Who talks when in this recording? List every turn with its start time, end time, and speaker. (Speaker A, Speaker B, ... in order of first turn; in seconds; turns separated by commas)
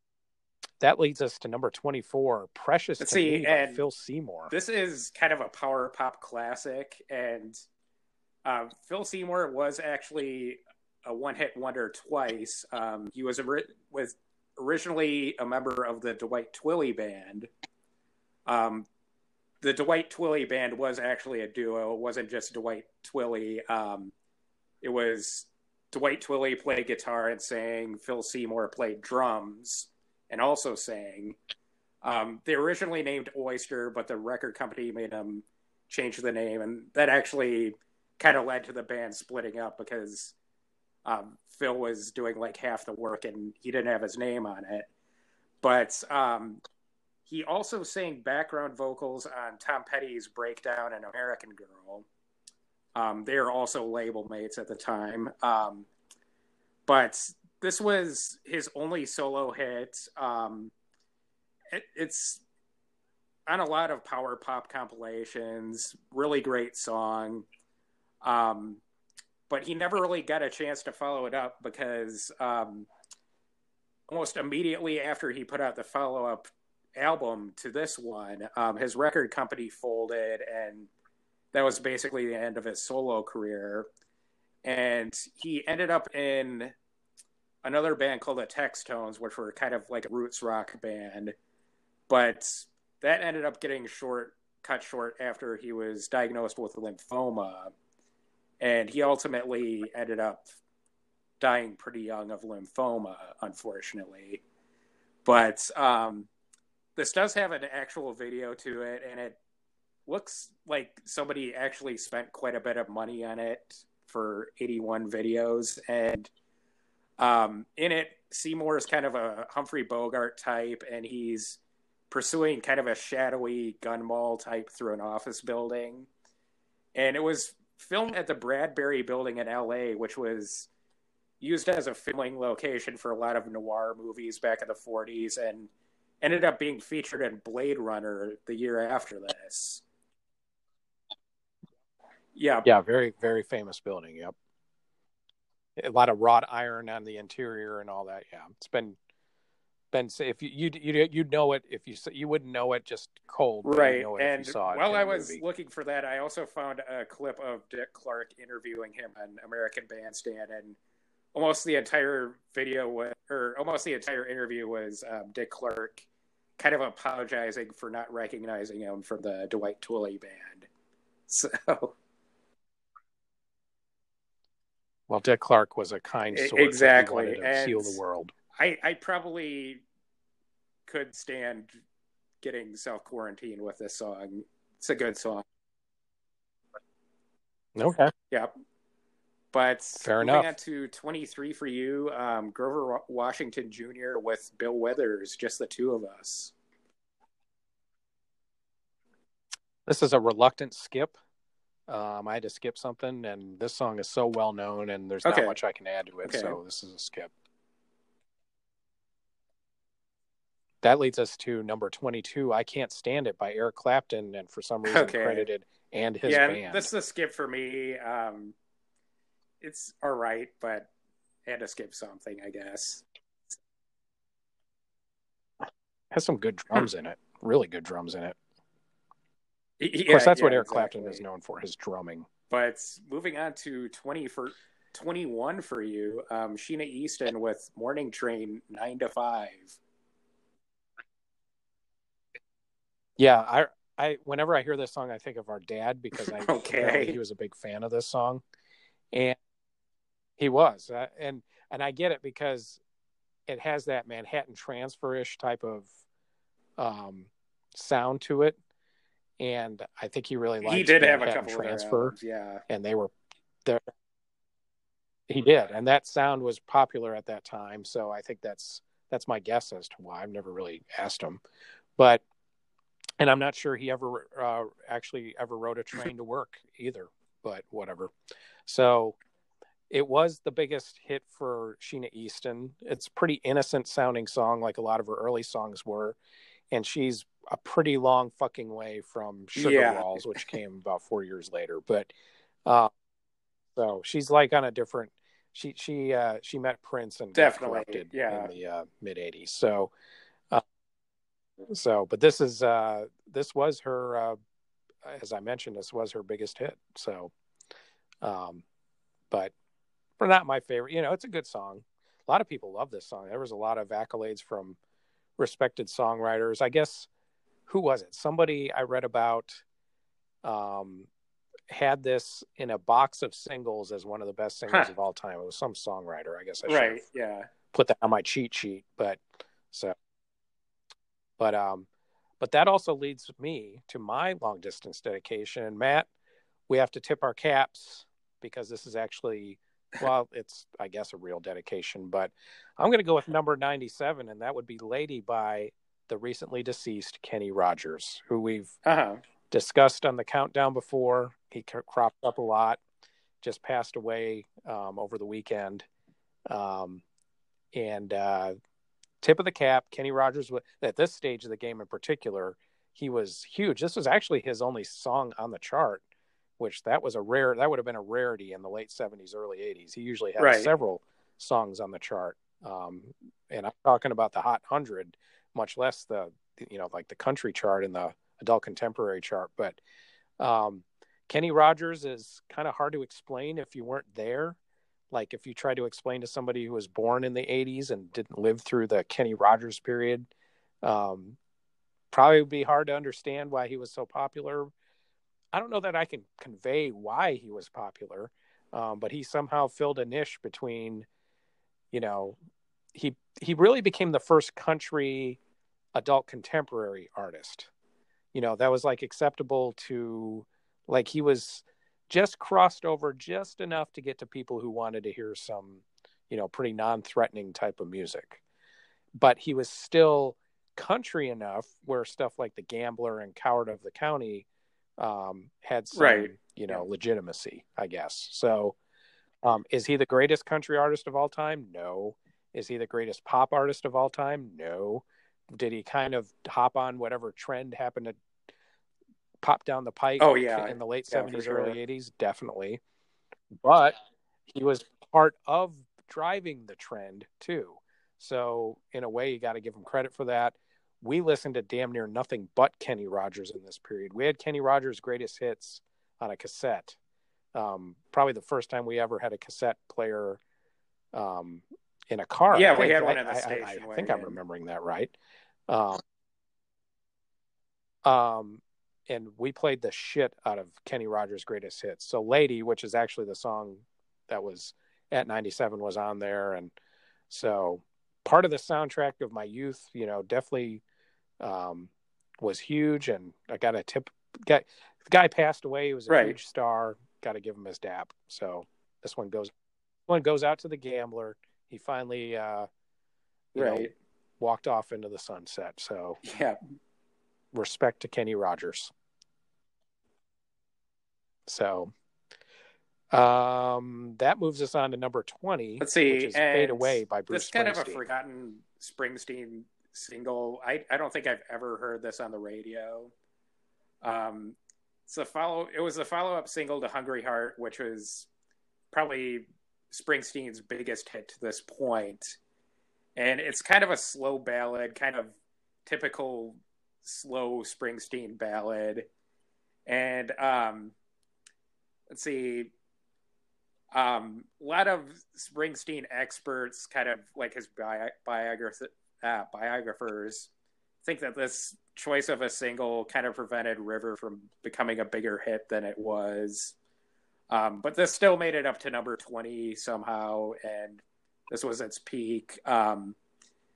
Speaker A: 0.8-4.5, Speaker B: 3.0-3.8, Speaker B: 4.5-7.6, Speaker B: 8.4-17.5, Speaker B: 18.5-18.9, Speaker B: 19.6-24.1, Speaker B: 24.8-31.4, Speaker B: 32.0-40.4, Speaker B: 41.0-44.9, Speaker B: 45.6-46.6, Speaker B: 47.3-52.1, Speaker B: 53.0-55.9, Speaker B: 56.9-60.7, Speaker B: 61.7-62.4, Speaker B: 63.5-67.5, Speaker B: 68.2-68.8, Speaker B: 69.5-72.9, Speaker B: 74.1-80.9, Speaker B: 81.5-83.9, Speaker B: 84.6-86.7, Speaker B: 87.6-91.3, Speaker B: 92.1-97.7, Speaker B: 98.6-100.5, Speaker B: 101.4-104.4, Speaker B: 105.2-106.3, Speaker B: 107.0-109.4, Speaker B: 110.1-116.3, Speaker B: 117.2-126.1, Speaker B: 127.0-130.7, Speaker B: 131.4-135.7, Speaker B: 136.2-139.8, Speaker B: 142.3-142.7, Speaker A: 142.6-144.3, Speaker A: 145.8-149.0, Speaker A: 149.9-155.4, Speaker B: 153.6-160.8, Speaker B: 161.3-166.1, Speaker B: 166.6-170.7, Speaker B: 171.3-171.9, Speaker A: 175.1-178.3, Speaker B: 176.3-178.0, Speaker B: 178.6-179.8, Speaker B: 180.9-181.8, Speaker B: 182.4-185.4, Speaker A: 187.8-188.1, Speaker B: 189.5-196.5, Speaker A: 190.0-190.6, Speaker A: 199.9-201.2, Speaker A: 201.9-207.3, Speaker B: 205.2-205.6, Speaker B: 206.2-206.6, Speaker A: 210.8-216.9, Speaker B: 214.9-215.5, Speaker B: 216.3-218.6, Speaker B: 219.6-220.9, Speaker B: 221.4-223.1, Speaker A: 226.1-228.4, Speaker B: 229.8-231.2, Speaker A: 230.1-232.3, Speaker B: 232.5-239.8, Speaker A: 243.2-248.4, Speaker B: 246.3-247.2, Speaker A: 249.1-249.4, Speaker A: 250.4-252.8, Speaker A: 253.5-255.9, Speaker A: 256.8-258.6, Speaker A: 259.4-262.2, Speaker B: 260.6-262.6, Speaker A: 262.7-263.1, Speaker A: 265.3-271.4, Speaker A: 272.0-272.2, Speaker A: 273.2-278.1, Speaker A: 278.7-279.2, Speaker A: 279.9-286.2, Speaker A: 286.7-292.1, Speaker B: 289.6-290.4, Speaker A: 292.6-292.9, Speaker A: 293.8-299.9, Speaker B: 297.3-298.5, Speaker A: 301.7-304.4, Speaker A: 305.0-307.3, Speaker A: 308.2-308.6, Speaker A: 310.2-314.8, Speaker A: 315.4-317.1, Speaker A: 317.7-319.6, Speaker A: 320.4-321.1, Speaker A: 321.7-327.0, Speaker B: 326.7-327.5, Speaker A: 327.7-329.9, Speaker A: 331.4-331.9, Speaker A: 332.4-336.1, Speaker A: 336.7-348.8, Speaker B: 348.9-349.2, Speaker A: 349.5-352.8, Speaker A: 353.4-355.9, Speaker A: 356.5-357.0, Speaker A: 357.7-358.5, Speaker A: 359.2-366.0, Speaker A: 366.6-379.8, Speaker B: 370.4-370.7, Speaker A: 380.4-384.6, Speaker A: 385.1-390.3, Speaker A: 390.8-391.4, Speaker A: 392.1-394.7, Speaker A: 395.5-401.1, Speaker A: 401.9-402.4, Speaker A: 402.9-405.4, Speaker A: 405.9-407.7, Speaker A: 408.3-418.4, Speaker A: 419.2-424.5, Speaker A: 425.0-428.8, Speaker B: 425.9-426.9, Speaker A: 429.4-438.2, Speaker A: 439.4-442.8, Speaker B: 440.2-441.8, Speaker A: 443.6-444.0, Speaker A: 444.5-457.0, Speaker A: 457.5-460.4, Speaker A: 461.1-465.1, Speaker B: 462.5-464.4, Speaker A: 465.7-466.0, Speaker A: 468.0-476.7, Speaker A: 477.3-480.8, Speaker A: 481.4-489.5, Speaker B: 486.1-486.4, Speaker A: 490.1-492.7, Speaker A: 493.5-496.2, Speaker B: 493.6-493.9, Speaker B: 496.2-496.6, Speaker A: 497.5-498.9, Speaker A: 501.5-501.9, Speaker A: 503.1-508.0, Speaker B: 505.8-513.1, Speaker B: 514.0-518.3, Speaker B: 518.9-522.4, Speaker B: 523.2-525.3, Speaker B: 525.9-529.1, Speaker B: 529.9-531.0, Speaker B: 532.1-532.7, Speaker B: 533.9-540.5, Speaker B: 541.0-546.8, Speaker B: 547.5-553.2